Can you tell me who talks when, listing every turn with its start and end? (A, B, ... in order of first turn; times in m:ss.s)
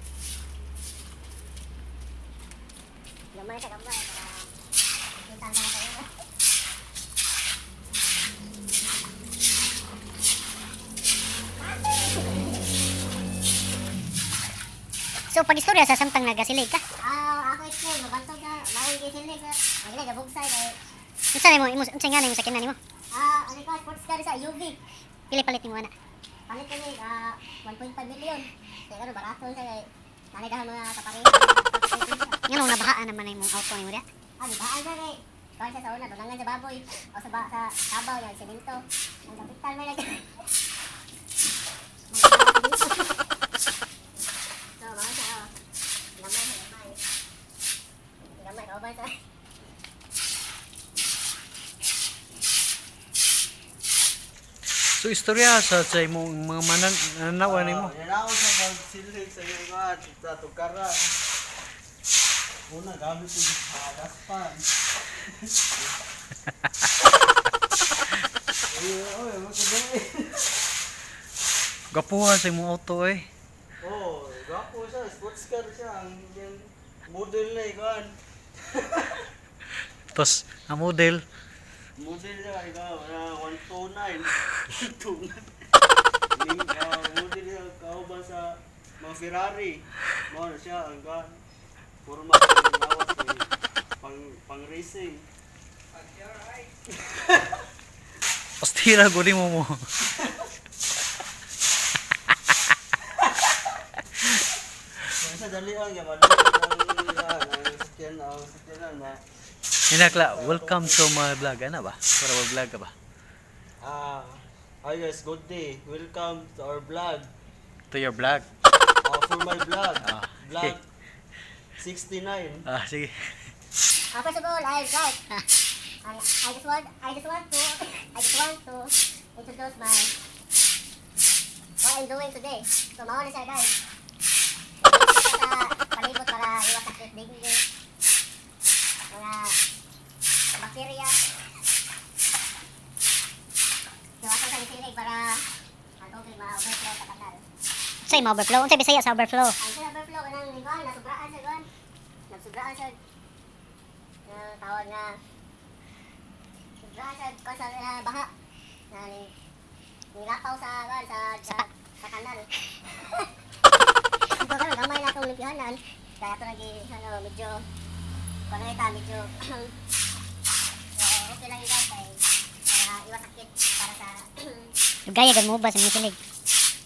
0:03.3-0:04.5 A
0:05.1-0:06.1 A
0:15.3-0:16.8 B
0:17.0-0:20.8 A
0:21.3-0:22.8 B
0:23.1-0:24.8 A
0:25.3-0:25.9 B
0:26.5-0:32.4 A
0:32.5-0:34.0 B
0:34.4-0:40.4 A
0:42.1-0:43.2 A
0:44.8-0:45.5 A
0:46.2-0:47.0 A
0:48.4-0:49.2 A
0:55.0-0:57.9 C
0:57.4-1:01.1 D
1:02.7-1:05.9 D
1:08.7-1:10.5 D
1:11.9-1:13.3 C
1:13.8-1:18.2 D
1:18.7-1:19.3 D
1:20.1-1:21.2 C
1:22.0-1:25.4 D
1:26.3-1:31.4 D
1:32.0-1:33.5 D
1:34.0-1:35.2 D
1:36.3-1:37.5 D
1:38.6-1:39.9 C
1:45.1-1:49.2 D
1:49.9-1:52.9 C
1:49.9-1:51.0 D
1:53.8-1:57.3 D
1:57.9-1:58.5 C
1:59.0-2:00.8 D
2:00.0-2:00.8 C
2:01.8-2:02.6 D
2:02.7-2:03.5 C
2:04.1-2:05.2 A
2:06.0-2:10.1 A
2:11.8-2:13.7 A
2:14.8-2:17.6 A
2:19.1-2:19.6 A
2:20.6-2:21.2 A
2:24.2-2:25.4 A
2:26.0-2:27.4 A
2:28.1-2:29.5 B
2:29.6-2:31.7 A
2:32.3-2:33.0 A
2:34.3-2:35.2 A
2:36.8-2:38.3 A
2:38.9-2:39.3 A
2:40.1-2:43.3 A
2:44.3-2:47.6 A
2:48.5-2:49.7 A
2:51.0-2:54.7 A
2:55.1-2:56.2 B